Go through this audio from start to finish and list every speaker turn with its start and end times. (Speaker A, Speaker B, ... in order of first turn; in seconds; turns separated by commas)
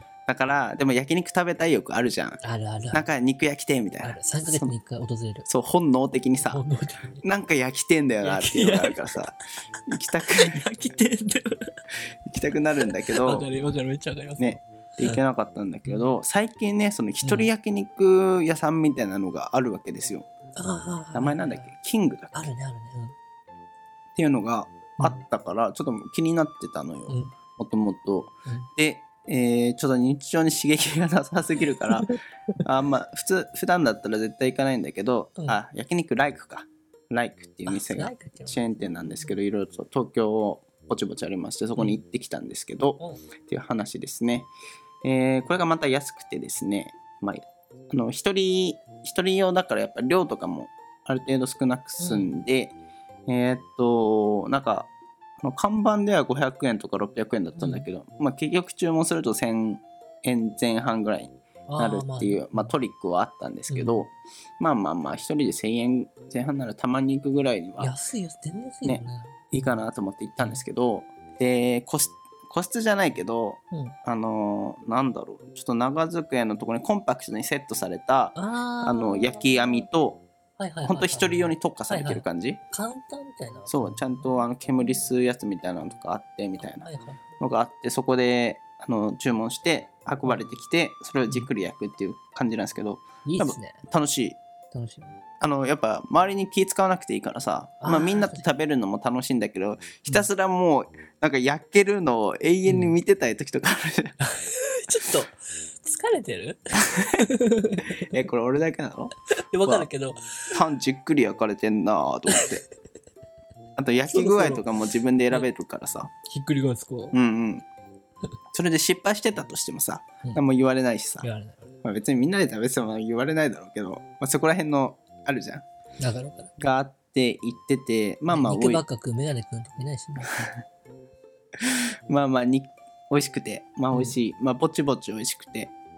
Speaker A: 0.3-2.4, Speaker B: 2.4-3.1, Speaker A: 2.9-4.7, Speaker B: 4.0-5.5, Speaker A: 5.5-6.6, Speaker B: 6.4-7.2, Speaker A: 7.2-9.3, Speaker B: 8.2-9.4, Speaker A: 9.9-10.6, Speaker B: 10.4-11.8, Speaker A: 12.3-13.5, Speaker B: 12.8-15.2, Speaker A: 14.4-20.3, Speaker B: 15.9-16.1, Speaker B: 17.2-17.5, Speaker B: 20.6-21.7, Speaker A: 21.1-22.3, Speaker B: 22.3-23.1, Speaker A: 24.1-32.1, Speaker A: 32.6-44.5, Speaker B: 37.7-39.4, Speaker A: 45.0-68.0, Speaker B: 52.0-52.3, Speaker B: 57.6-57.9, Speaker B: 61.7-62.7, Speaker B: 63.7-64.0, Speaker B: 67.8-69.7, Speaker A: 68.8-80.2, Speaker B: 78.4-79.8, Speaker B: 80.6-84.2, Speaker A: 80.8-82.6, Speaker A: 83.7-86.9, Speaker B: 86.6-87.2, Speaker A: 87.4-94.4, Speaker B: 93.2-93.8, Speaker B: 94.7-95.2, Speaker A: 95.4-104.2, Speaker B: 97.8-98.4, Speaker B: 102.7-103.0, Speaker B: 104.2-108.0, Speaker A: 108.1-109.9, Speaker B: 109.5-110.6, Speaker A: 110.5-112.6, Speaker A: 113.8-116.1, Speaker B: 114.1-114.7, Speaker B: 116.2-117.2, Speaker A: 117.1-117.7, Speaker A: 118.5-121.3, Speaker B: 121.2-121.7, Speaker A: 121.8-125.6, Speaker B: 126.0-126.5, Speaker A: 126.6-128.8, Speaker B: 128.3-130.5, Speaker A: 131.6-135.7, Speaker B: 133.9-134.2